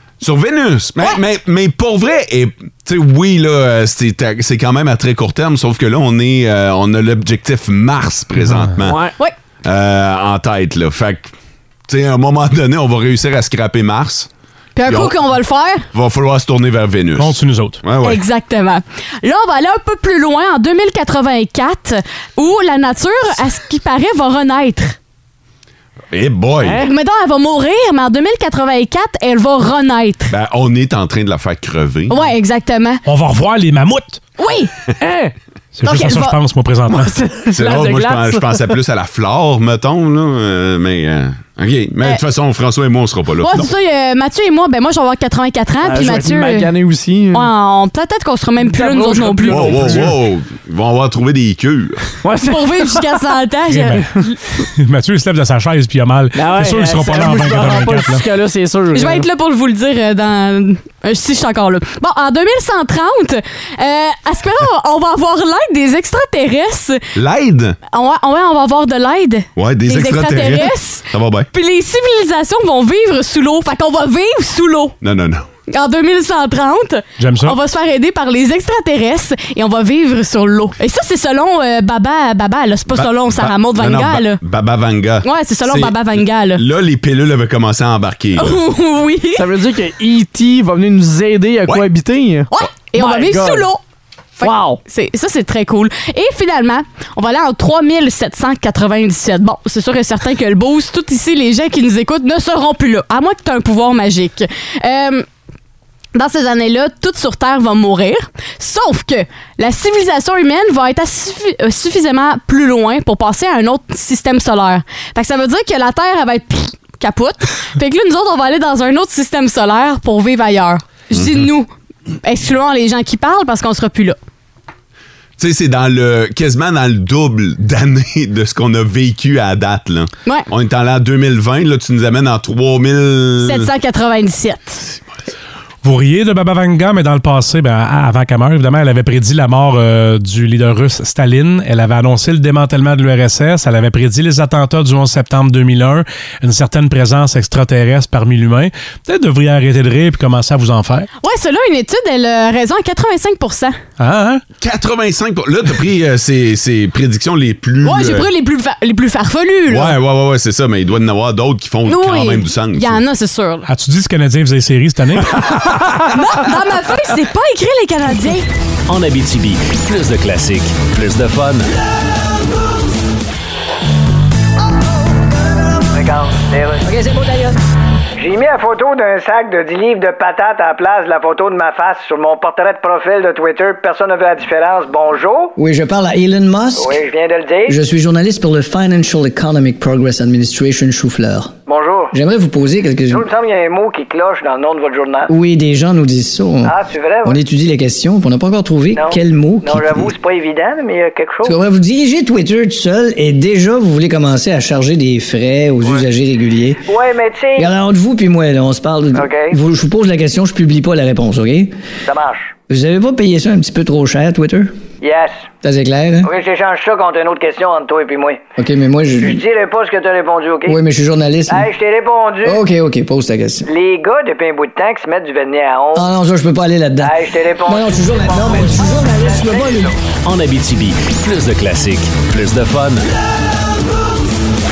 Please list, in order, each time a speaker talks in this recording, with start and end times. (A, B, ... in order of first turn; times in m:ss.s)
0:00.2-0:09.0 A
0:08.8-0:09.1 B
0:09.6-0:11.3 A
0:11.9-0:14.3 A
0:14.8-0:15.9 C
0:14.9-0:15.2 A
0:15.9-0:18.2 A
0:17.2-0:17.8 D
0:18.0-0:25.0 C
0:26.1-0:26.8 A
0:26.7-0:30.3 C
0:30.3-0:32.2 A
0:32.1-0:33.0 C
0:33.0-0:34.2 D
0:34.4-0:34.7 C
0:35.0-0:35.3 B
0:35.8-0:37.2 D
0:35.8-0:36.4 C
0:36.9-0:38.6 B
0:37.5-0:43.7 A
0:43.4-0:46.7 C
0:45.8-0:47.5 B
0:47.3-0:50.0 C
0:48.6-0:50.2 B
0:49.5-0:52.0 A
0:52.2-0:53.1 B
0:52.4-0:54.3 C
0:53.7-0:54.1 D
0:54.6-0:58.3 D
0:56.4-0:59.3 B
0:58.9-1:07.0 C
1:07.2-1:07.8 A
1:07.9-1:15.0 C
1:09.6-1:11.5 A
1:15.0-1:15.5 A
1:15.7-1:24.4 C
1:17.2-1:17.6 D
1:22.9-1:28.6 A
1:25.2-1:26.6 C
1:28.4-1:29.5 C
1:29.4-1:33.7 B
1:32.5-1:33.8 C
1:34.4-1:45.3 C
1:34.4-1:34.8 B
1:46.2-2:01.7 C
2:02.2-2:04.2 C
2:05.4-2:13.7 A
2:13.4-2:14.9 C
2:15.8-2:31.1 D
2:31.2-2:33.8 C
2:34.0-2:34.4 D
2:34.6-2:38.3 A
2:37.8-2:40.0 C
2:39.7-2:43.0 A
2:41.9-2:43.7 C
2:43.7-2:45.5 D
2:46.0-2:48.5 C
2:48.9-2:51.7 E
2:55.9-2:56.9 F
2:56.8-2:57.5 G
2:58.2-3:05.6 F
3:05.6-3:07.0 G
3:06.8-3:07.8 F
3:07.7-3:11.5 G
3:11.7-3:12.1 F
3:12.1-3:13.3 G
3:13.1-3:15.3 F
3:15.3-3:20.1 G
3:16.6-3:17.4 F
3:18.9-3:21.6 F
3:21.4-3:26.8 G
3:26.9-3:27.7 F
3:27.6-3:31.7 G
3:29.1-3:29.6 F
3:32.1-3:32.6 F
3:32.7-3:34.8 G
3:35.0-3:35.5 F
3:35.6-3:36.3 G
3:36.2-3:38.4 F
3:38.6-3:39.4 G
3:39.2-3:40.8 F
3:40.7-3:41.7 G
3:41.5-3:42.6 F
3:42.4-3:43.7 G
3:43.7-3:46.1 F
3:46.0-3:50.0 G
3:47.0-3:49.9 F
3:50.2-3:53.0 E